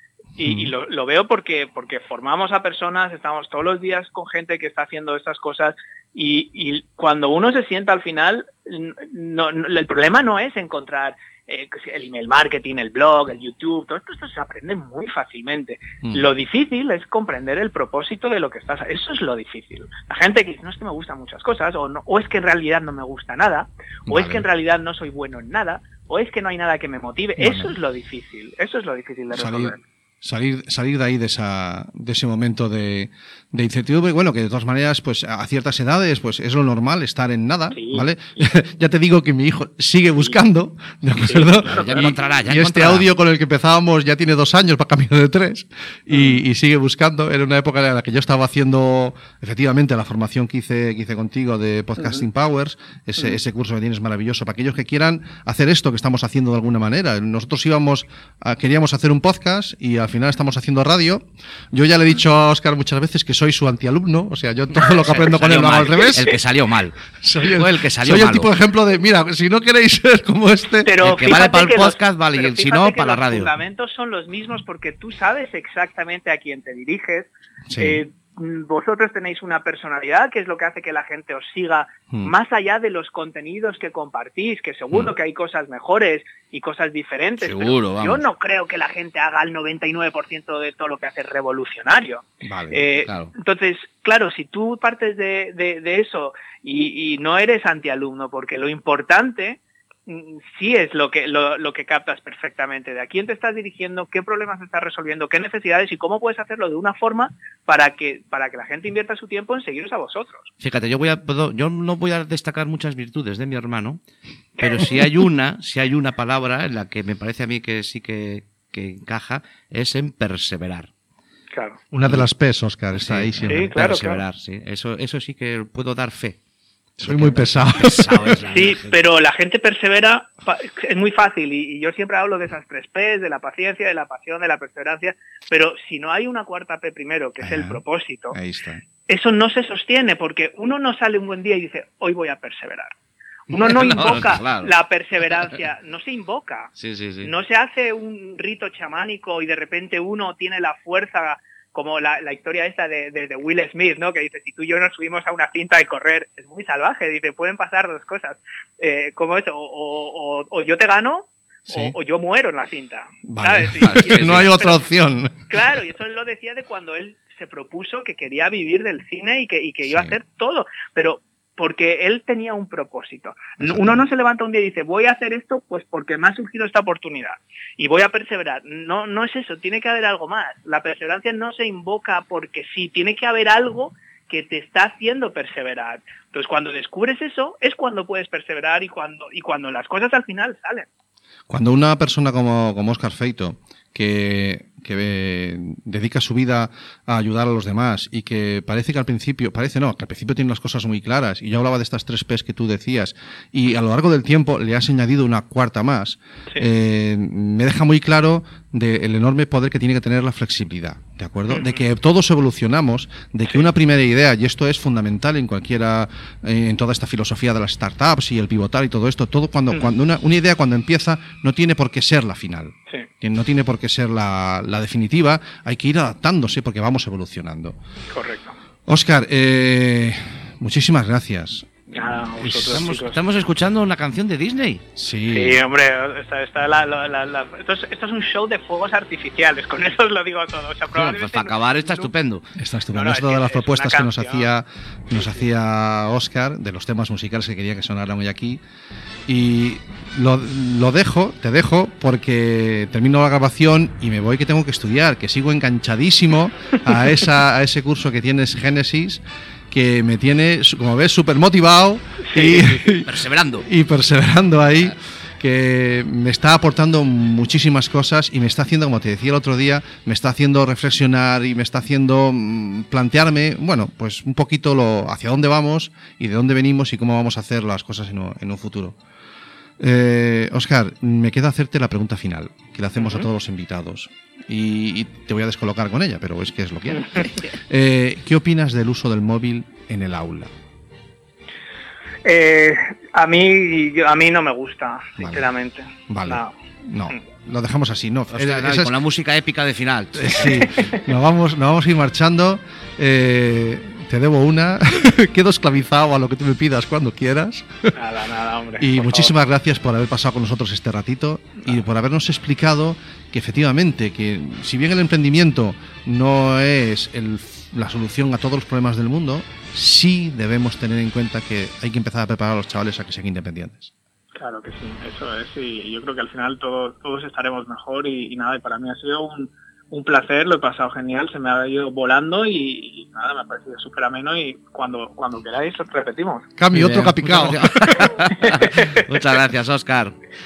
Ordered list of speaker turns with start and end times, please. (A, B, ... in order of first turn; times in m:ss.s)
0:00.4-0:29.8 A
0:00.4-0:00.7 B
0:16.0-0:16.3 B
0:24.1-0:24.4 B
0:27.4-0:27.7 B
0:29.3-1:06.4 B
0:37.7-0:38.5 A
0:41.2-0:42.1 A
0:41.6-0:43.1 C
0:46.1-0:46.4 A
0:52.0-0:52.2 A
1:04.8-1:08.5 C
1:07.2-1:10.9 B
1:10.8-1:50.5 A
1:11.0-1:13.5 C
1:17.7-1:18.0 B
1:27.4-1:28.2 C
1:32.4-1:32.8 B
1:33.0-1:33.3 C
1:50.6-1:54.0 C
1:54.6-2:00.9 C
1:54.6-1:55.0 A
2:01.5-2:01.8 A
2:01.9-2:04.0 B
2:02.9-2:06.4 C
2:03.5-2:04.2 A
2:07.0-2:08.4 B
2:07.0-2:09.0 C
2:08.5-2:18.4 A
2:17.4-2:17.8 B
2:18.3-2:18.8 B
2:19.1-2:22.9 A
2:23.5-2:24.7 C
2:23.5-2:44.9 A
2:26.8-2:27.3 C
2:41.7-2:41.9 B
2:43.3-2:45.4 B
2:43.8-2:44.5 C
2:45.5-3:10.9 A
2:49.8-2:50.2 B
2:53.6-2:54.0 B
3:11.5-3:47.8 B
3:31.5-3:31.8 A
3:48.1-3:48.6 A
3:48.9-3:51.7 B
3:51.9-3:53.2 A
3:52.4-3:52.9 B
3:52.7-3:54.8 C
3:55.0-3:55.6 B
3:55.3-4:02.1 A
4:00.9-4:02.4 C
4:02.6-4:08.6 B
4:02.9-4:04.5 A
4:05.1-4:05.4 A
4:09.3-4:39.0 B
4:22.3-4:22.6 A
4:23.0-4:23.7 C
4:39.8-4:50.5 B
4:43.0-4:43.3 A
4:52.2-4:56.5 A
4:55.2-4:55.5 B
4:56.1-4:58.9 B
4:58.3-5:00.5 C
5:00.2-5:07.9 B
5:00.5-5:01.0 A
5:08.0-5:09.3 A
5:08.8-5:23.9 B
5:24.4-5:36.5 A
5:36.6-5:38.2 B
5:36.7-5:40.2 C
5:38.4-5:39.2 A